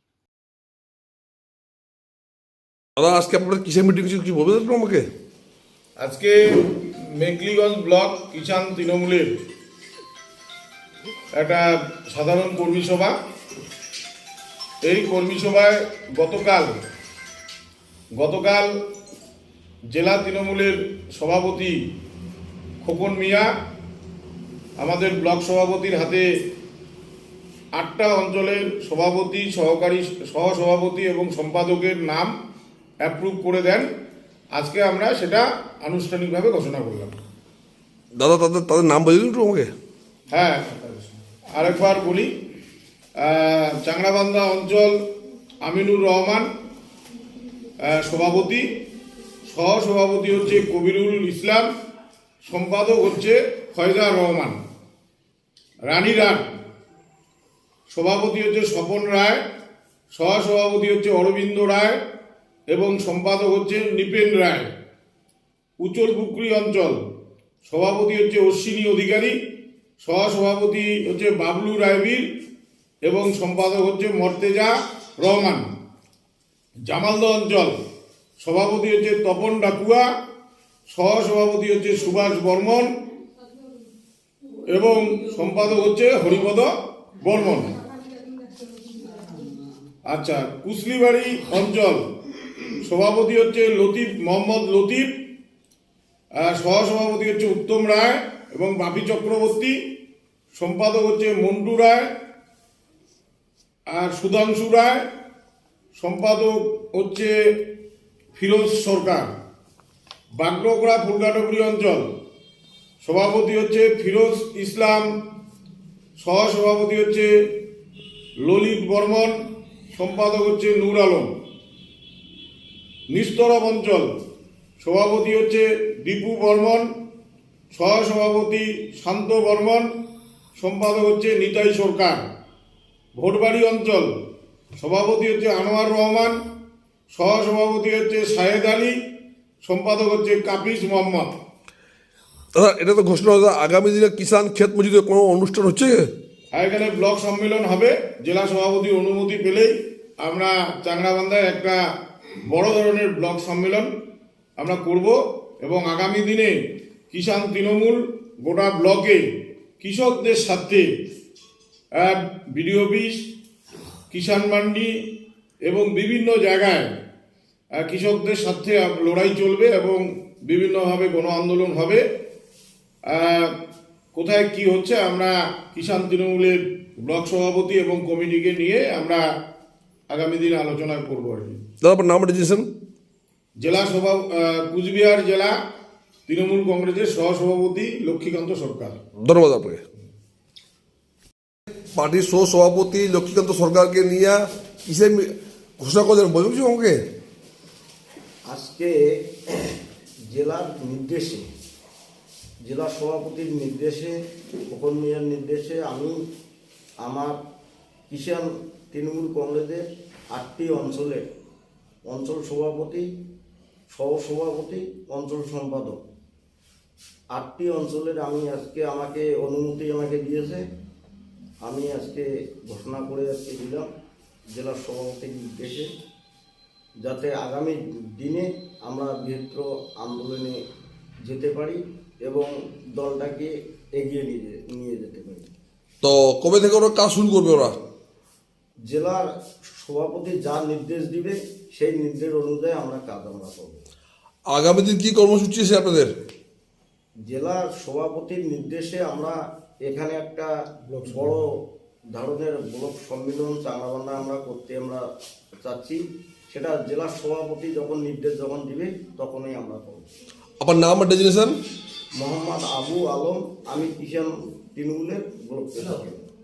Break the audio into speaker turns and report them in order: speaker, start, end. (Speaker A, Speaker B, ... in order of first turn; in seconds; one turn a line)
Speaker A: 3.0-5.1
Speaker B: 6.0-9.3
Speaker B: 11.3-13.1
Speaker B: 14.8-16.7
Speaker B: 18.2-18.7
Speaker B: 19.9-21.8
Speaker B: 22.8-23.5
Speaker B: 24.8-26.3
Speaker B: 27.8-32.3
Speaker B: 33.0-33.9
Speaker B: 34.5-37.2
Speaker A: 38.2-39.7
Speaker B: 40.3-40.8
Speaker B: 41.5-42.3
Speaker B: 43.2-44.9
Speaker B: 45.6-46.5
Speaker B: 47.8-48.7
Speaker B: 49.5-51.7
Speaker B: 52.4-54.6
Speaker B: 55.9-56.5
Speaker B: 57.9-59.4
Speaker B: 60.1-62.0
Speaker B: 62.7-64.7
Speaker B: 65.8-67.0
Speaker B: 67.6-69.3
Speaker B: 70.0-72.2
Speaker B: 73.0-75.6
Speaker B: 76.9-77.8
Speaker B: 78.4-80.1
Speaker B: 80.9-82.9
Speaker B: 84.7-87.7
Speaker B: 90.1-92.0
Speaker B: 92.8-95.1
Speaker B: 96.4-99.7
Speaker B: 100.5-102.1
Speaker B: 103.9-105.0
Speaker B: 106.0-107.3
Speaker B: 108.3-109.3
Speaker B: 110.4-112.0
Speaker B: 113.0-115.1
Speaker B: 116.2-117.3
Speaker B: 118.5-119.4
Speaker B: 119.9-121.3
Speaker B: 123.1-124.1
Speaker B: 124.8-126.9
Speaker B: 127.7-129.9
Speaker B: 130.6-132.2
Speaker B: 133.2-134.1
Speaker B: 134.8-136.4
Speaker B: 137.1-138.9
Speaker B: 139.6-141.3
Speaker A: 142.6-146.1
Speaker B: 146.5-151.8
Speaker B: 152.4-153.9
Speaker B: 154.6-156.6
Speaker B: 157.1-159.2
Speaker B: 159.8-160.9
Speaker B: 161.9-163.2
Speaker B: 164.1-164.9
Speaker B: 165.7-166.9
Speaker B: 167.8-172.0
Speaker B: 173.1-173.5
Speaker B: 174.1-179.2
Speaker B: 180.1-181.6
Speaker A: 181.8-182.7
Speaker B: 183.6-185.5
Speaker B: 186.3-189.0
Speaker A: 189.2-189.8
Speaker A: 191.9-197.0
Speaker C: 198.5-199.0
Speaker C: 200.3-201.4
Speaker C: 202.7-204.1
Speaker C: 204.7-206.1
Speaker C: 207.0-207.4
Speaker C: 208.1-211.2
Speaker C: 212.1-213.1
Speaker C: 213.9-216.0
Speaker C: 217.3-220.6
Speaker C: 221.7-223.9
Speaker C: 224.5-225.9
Speaker C: 227.0-230.6
Speaker C: 231.2-235.5
Speaker A: 236.0-237.8
Speaker C: 238.9-239.2
Speaker C: 239.8-243.8
Speaker A: 244.5-246.1
Speaker C: 247.3-250.5
Speaker B: 250.9-251.3
Speaker C: 251.1-251.5
Speaker C: 252.1-255.0
Speaker C: 255.6-260.1
Speaker A: 260.6-261.6
Speaker C: 262.2-266.2